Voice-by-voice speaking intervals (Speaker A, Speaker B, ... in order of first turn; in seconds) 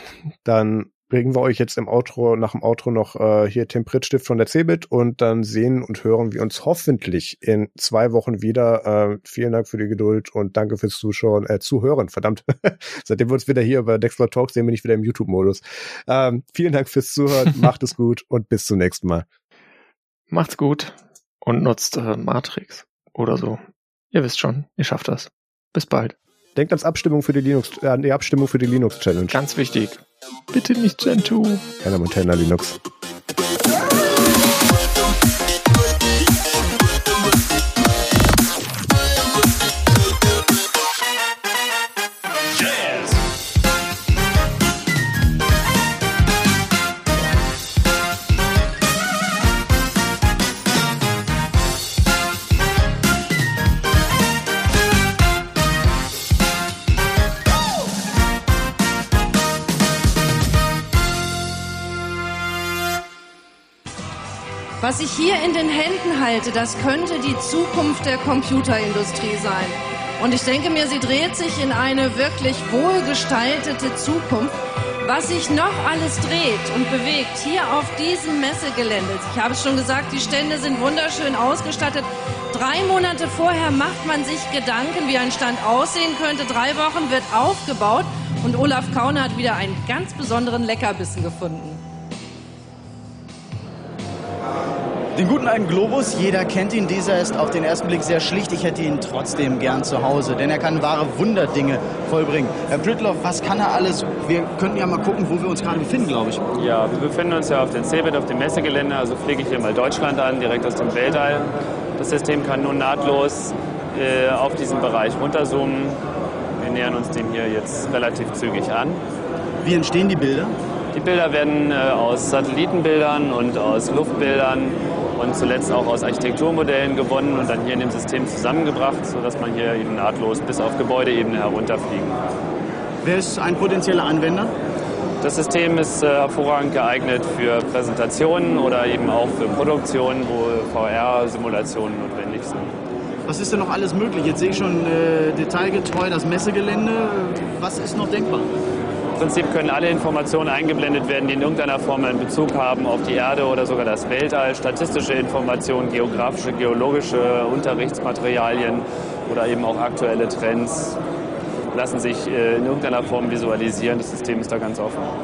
Speaker A: 0.4-19.2, 26.6-29.4, 31.8-32.8
Speaker B: 20.3-23.6, 24.1-26.1, 29.3-31.6
Speaker C: 64.8-74.5, 75.0-91.8
Speaker D: 95.2-106.4, 119.6-120.5, 133.0-134.5, 143.2-148.5
Speaker E: 106.5-116.0, 116.6-119.0, 120.9-132.1, 135.2-142.7, 149.2-161.0, 161.7-165.0